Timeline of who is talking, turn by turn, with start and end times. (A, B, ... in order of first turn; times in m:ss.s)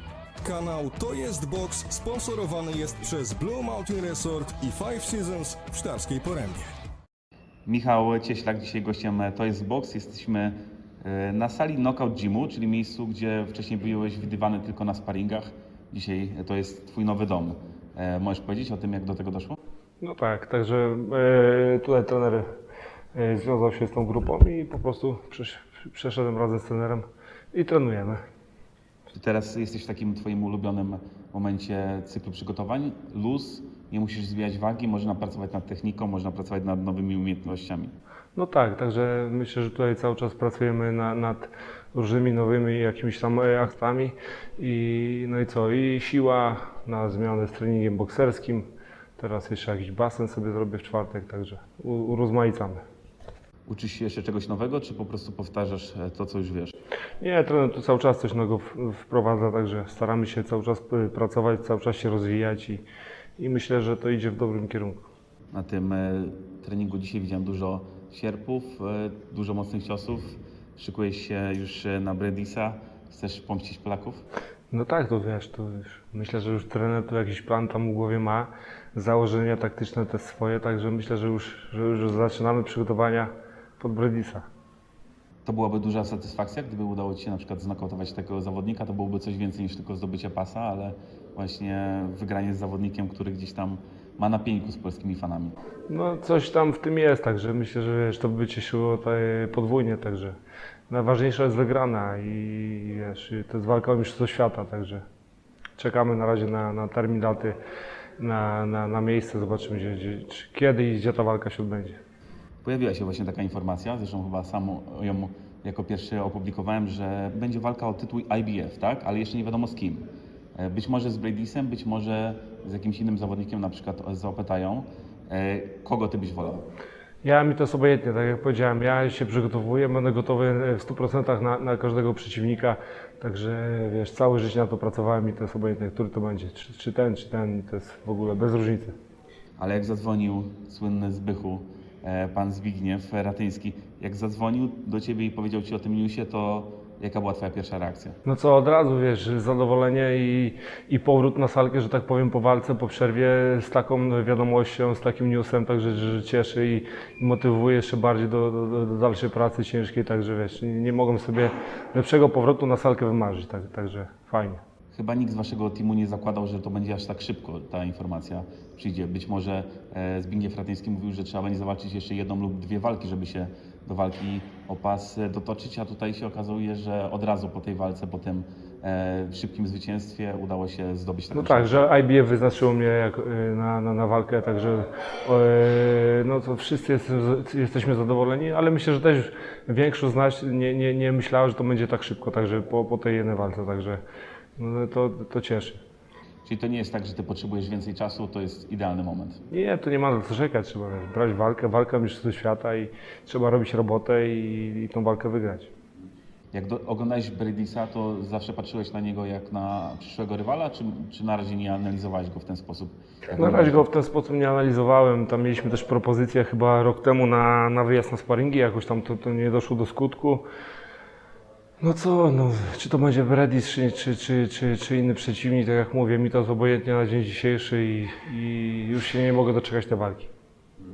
0:00.4-0:06.7 A
0:07.7-0:19.6 B
0:20.0-0:22.5 C
0:23.2-0:28.2 C
0:29.1-0:38.0 B
0:38.4-0:52.8 C
0:53.7-0:56.7 B
0:57.2-1:02.8 C
1:03.4-1:05.0 C
1:05.5-1:14.2 B
1:14.7-1:24.5 C
1:25.4-1:35.6 B
1:35.9-1:40.4 C
1:40.9-1:45.0 C
1:45.8-1:47.6 C
1:48.2-1:52.0 C
1:52.6-2:00.1 B
2:00.6-2:06.6 B
2:07.2-2:19.0 C
2:19.6-2:28.2 B
2:28.2-2:44.6 C
2:44.9-3:01.8 B
3:01.3-3:14.0 C
3:14.6-3:15.8 C
3:16.4-3:19.4 B
3:19.5-3:25.7 C
3:26.5-3:33.8 B
3:33.4-3:40.4 C
3:41.8-3:50.3 C